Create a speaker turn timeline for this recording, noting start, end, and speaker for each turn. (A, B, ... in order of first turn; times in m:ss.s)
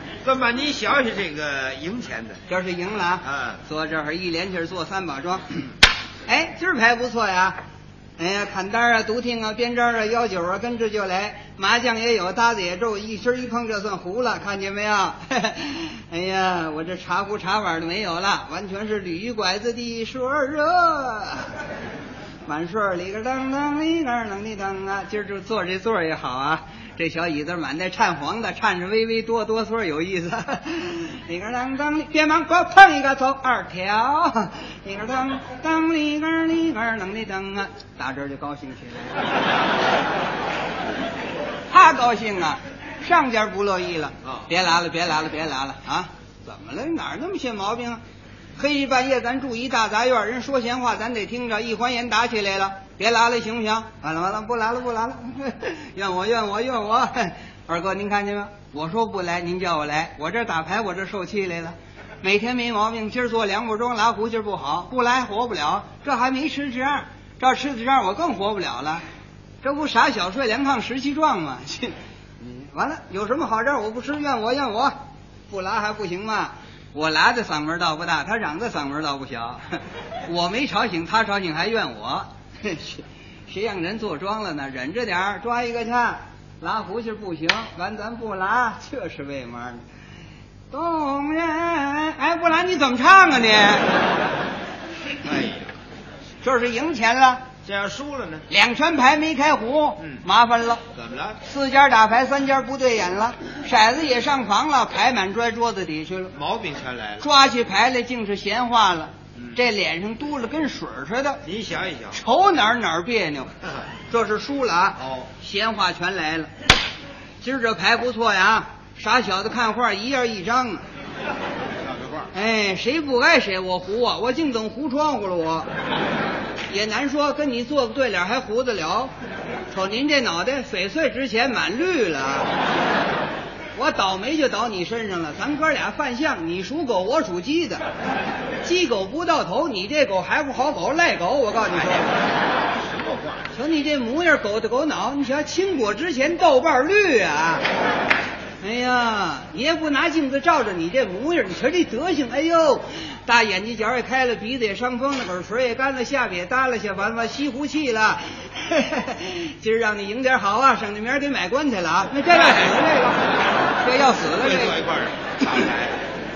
0:00.2-0:02.4 A
0:02.5-0:05.6 B
0:03.2-0:03.6 A
0:06.2-0:07.6 B
0:08.2-0:21.6 B
0:22.4-0:39.2 B
0:41.7-0:48.0 B
0:48.6-1:09.0 B
1:09.6-1:14.9 B
1:15.5-1:29.8 B
1:30.7-1:33.9 B
1:35.2-1:35.7 A
1:36.4-1:37.4 B
1:37.6-1:38.4 A
1:38.5-1:40.8 B
1:40.9-1:41.4 A
1:41.4-1:46.3 B
1:46.3-1:47.2 A
1:47.2-1:51.4 B
1:51.4-1:52.2 A
1:52.1-1:53.5 B
1:54.1-1:56.5 B
1:55.0-1:55.3 A
1:57.4-2:00.8 B
2:01.8-2:02.3 A
2:02.3-2:05.7 B
2:06.7-2:09.1 B
2:09.7-2:12.5 B
2:13.7-2:17.8 B
2:18.6-2:22.2 B
2:22.8-2:23.5 A
2:23.5-2:27.6 B
2:28.6-2:43.2 B
2:42.3-2:42.7 A
2:43.8-2:44.8 B
2:44.3-2:46.0 A